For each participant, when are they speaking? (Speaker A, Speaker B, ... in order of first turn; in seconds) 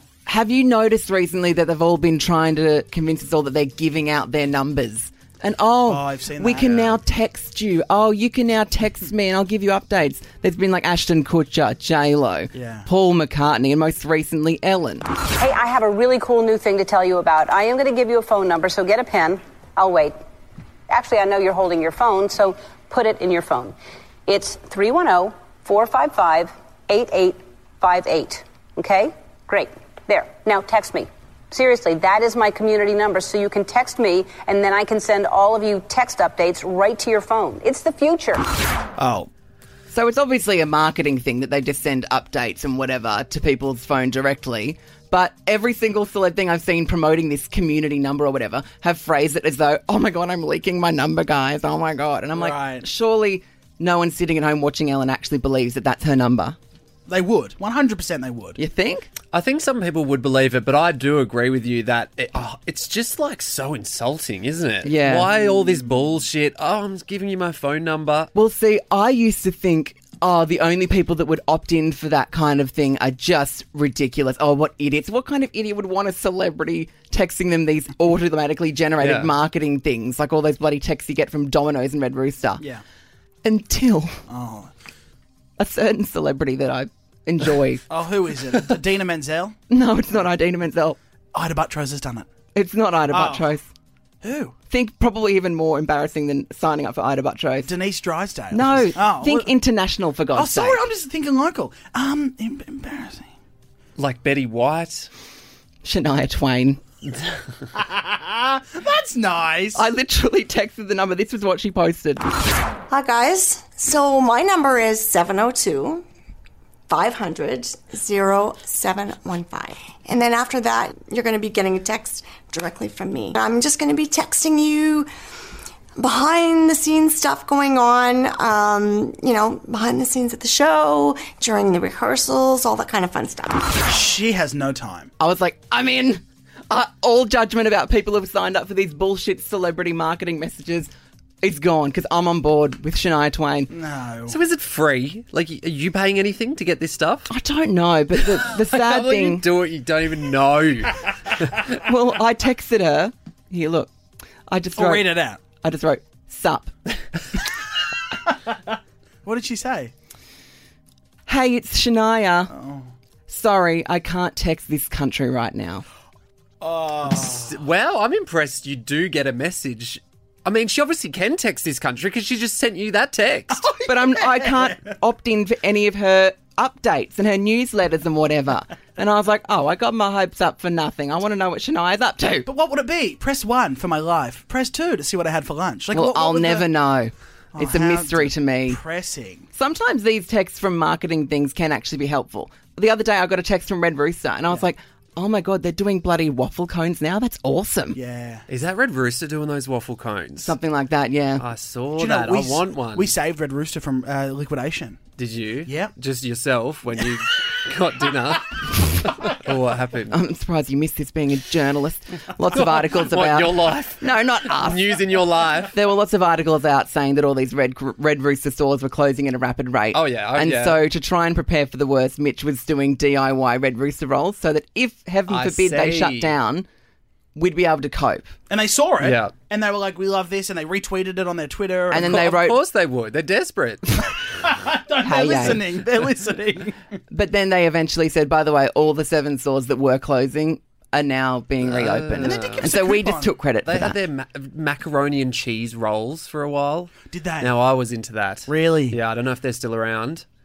Speaker A: 0.2-15.1, 39.9-56.5, 58.6-59.1, 64.8-65.3, 68.3-82.6, 83.4-84.2, 85.6-87.8, 89.7-91.0, 92.5-93.7, 94.7-97.7, 98.5-100.8, 105.8-106.8, 109.7-112.2, 135.2-140.9, 141.4-143.7, 147.3-149.5, 151.8-153.9, 154.5-156.8, 161.2-162.5, 163.3-165.8, 173.8-182.5, 185.9-188.8, 189.5-198.0, 200.3-201.4, 210.1-226.7, 227.3-228.3, 231.9-232.6, 235.0-235.7, 237.1-244.0
Speaker B: 5.9-7.0, 12.5-12.9, 39.0-39.3, 52.4-52.9, 57.1-58.6, 84.3-84.7, 87.9-89.5, 91.3-92.3, 93.1-93.5, 94.2-94.5, 97.6-99.5, 100.3-103.3, 107.7-109.8, 133.8-135.1, 143.7-144.4, 154.8-155.4, 159.2-159.9, 162.5-162.9, 166.6-167.5, 173.7-174.3, 182.5-186.7, 187.5-189.4, 197.9-198.4, 202.0-205.0, 205.7-205.9, 228.5-232.1, 234.0-236.8, 242.2-243.3, 247.1-247.5, 248.5-249.0
Speaker C: 15.4-20.1, 20.9-23.7, 24.3-38.4
Speaker D: 59.3-68.3, 79.0-79.3, 104.0-105.1, 144.3-147.3, 148.3-151.8, 167.0-173.7, 198.5-200.5, 201.4-203.1, 205.2-210.2, 212.5-215.7, 219.9-220.8, 225.3-226.3, 229.0-229.3, 232.0-234.1, 241.6-242.7, 243.6-250.2
Speaker E: 112.9-116.0, 116.9-125.1, 126.0-133.8